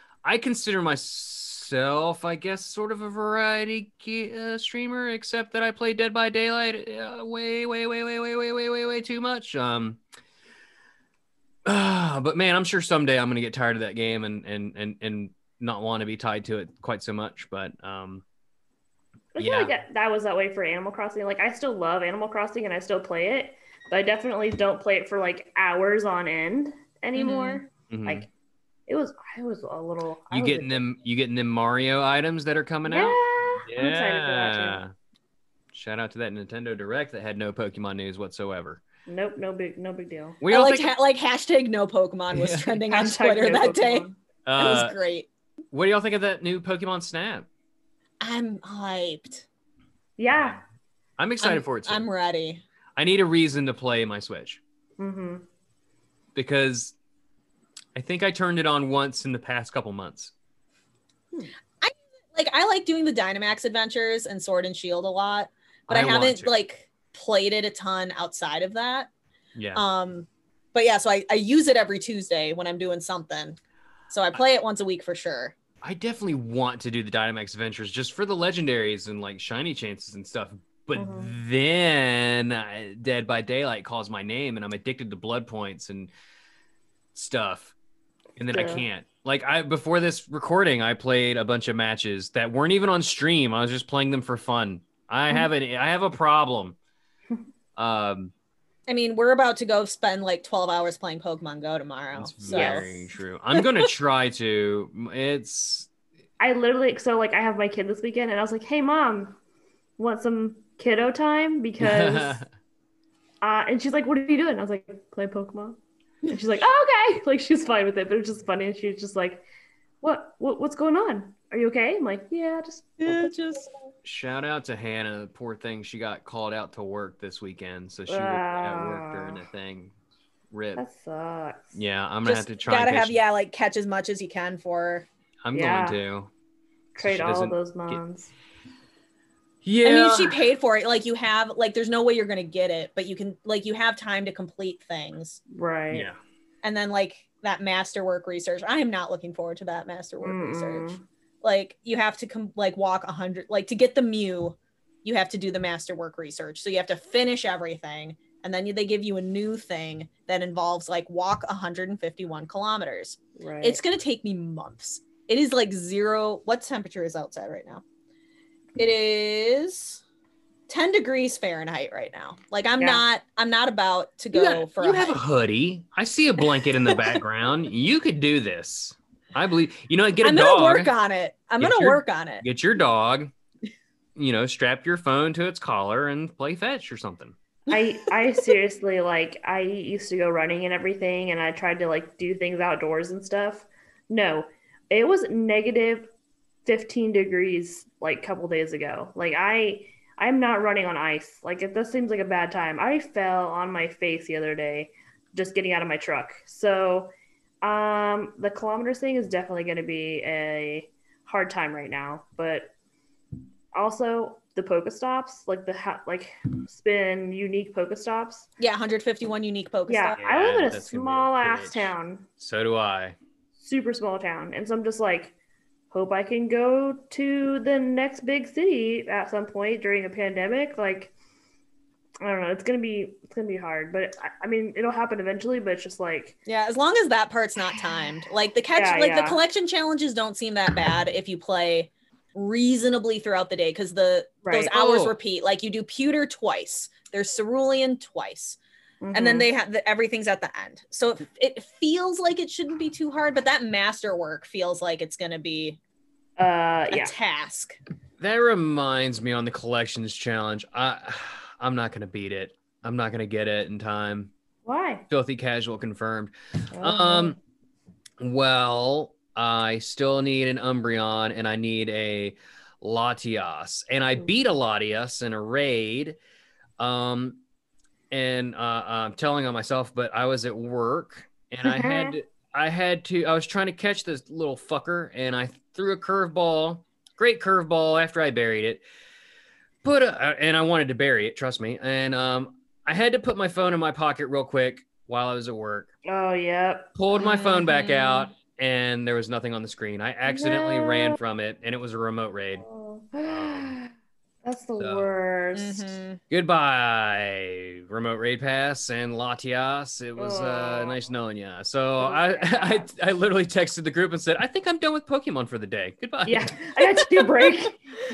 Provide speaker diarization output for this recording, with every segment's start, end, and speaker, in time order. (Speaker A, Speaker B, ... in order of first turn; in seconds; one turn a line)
Speaker A: 0.2-10.0
Speaker A: 11.7-18.2
Speaker B: 19.3-28.3
Speaker A: 19.4-19.7
Speaker C: 27.2-27.6
Speaker A: 27.9-28.3
Speaker B: 28.9-30.8
Speaker A: 30.3-34.9
Speaker B: 32.9-34.8
Speaker A: 35.7-38.8
Speaker B: 39.0-40.4
Speaker A: 40.4-40.9
Speaker C: 40.5-44.1
Speaker A: 42.3-42.7
Speaker B: 42.9-44.1
Speaker A: 44.5-44.9
Speaker C: 44.6-45.3
Speaker A: 45.7-47.5
Speaker C: 48.2-49.5
Speaker B: 50.2-50.6
Speaker A: 50.3-50.6
Speaker A: 51.2-52.0
Speaker C: 51.4-52.6
Speaker A: 53.0-54.6
Speaker B: 55.0-55.4
Speaker A: 56.3-56.9
Speaker A: 58.0-60.3
Speaker C: 61.8-69.1
Speaker A: 65.9-66.5
Speaker A: 69.5-69.8
Speaker C: 69.7-73.6
Speaker C: 74.1-75.5
Speaker A: 75.8-86.1
Speaker B: 80.9-81.3
Speaker A: 87.1-87.7
Speaker A: 88.4-96.8
Speaker B: 88.5-88.8
Speaker A: 97.8-98.3
Speaker C: 98.9-102.9
Speaker A: 102.1-105.9
Speaker B: 102.5-103.1
Speaker B: 106.4-109.4
Speaker B: 110.0-112.4
Speaker A: 111.8-112.5
Speaker B: 113.4-119.4
Speaker B: 120.0-123.3
Speaker C: 123.0-123.7
Speaker A: 124.0-129.9
Speaker B: 128.1-129.4
Speaker A: 130.5-130.8
Speaker B: 130.8-131.7
Speaker A: 131.7-133.2
Speaker C: 132.2-135.1
Speaker A: 135.4-136.3
Speaker B: 135.5-136.0
Speaker B: 136.9-138.3
Speaker A: 137.0-138.0
Speaker A: 139.6-140.4
Speaker C: 139.8-145.4
Speaker B: 145.5-146.1
Speaker A: 145.9-146.2
Speaker C: 146.6-167.8
Speaker B: 150.2-151.0
Speaker B: 163.4-163.8
Speaker C: 168.8-170.0
Speaker C: 170.7-175.2
Speaker B: 172.8-173.0
Speaker A: 174.3-180.9
Speaker C: 176.6-177.2
Speaker C: 180.2-182.4
Speaker A: 181.6-183.3
Speaker A: 184.2-187.3
Speaker C: 187.7-188.1
Speaker B: 187.7-196.1
Speaker B: 196.6-207.1
Speaker B: 207.6-212.7
Speaker B: 213.7-218.5
Speaker C: 218.6-220.2
Speaker B: 219.9-222.3
Speaker A: 220.2-223.2
Speaker B: 223.6-225.3
Speaker B: 225.9-231.1
Speaker B: 232.2-236.3
Speaker C: 236.4-248.6
Speaker B: 238.7-239.4
Speaker B: 244.4-244.8
Speaker A: 244.7-245.1
Speaker B: 249.0-249.5
Speaker C: 249.1-255.8
Speaker B: 256.4-257.1
Speaker C: 256.9-257.8
Speaker A: 258.2-264.3
Speaker B: 264.6-265.1
Speaker A: 265.1-267.4
Speaker B: 266.7-267.4
Speaker A: 268.2-276.2
Speaker A: 276.8-277.4
Speaker A: 278.1-288.8
Speaker B: 281.6-282.1
Speaker A: 289.8-295.9
Speaker B: 296.0-296.9
Speaker A: 296.9-302.6
Speaker C: 297.1-298.3
Speaker B: 300.3-301.2
Speaker B: 302.6-303.9
Speaker A: 303.2-303.8
Speaker B: 304.4-305.9
Speaker A: 304.8-305.1
Speaker C: 305.5-306.2
Speaker A: 306.3-316.6
Speaker B: 310.2-310.9
Speaker B: 312.0-312.9
Speaker B: 316.2-317.8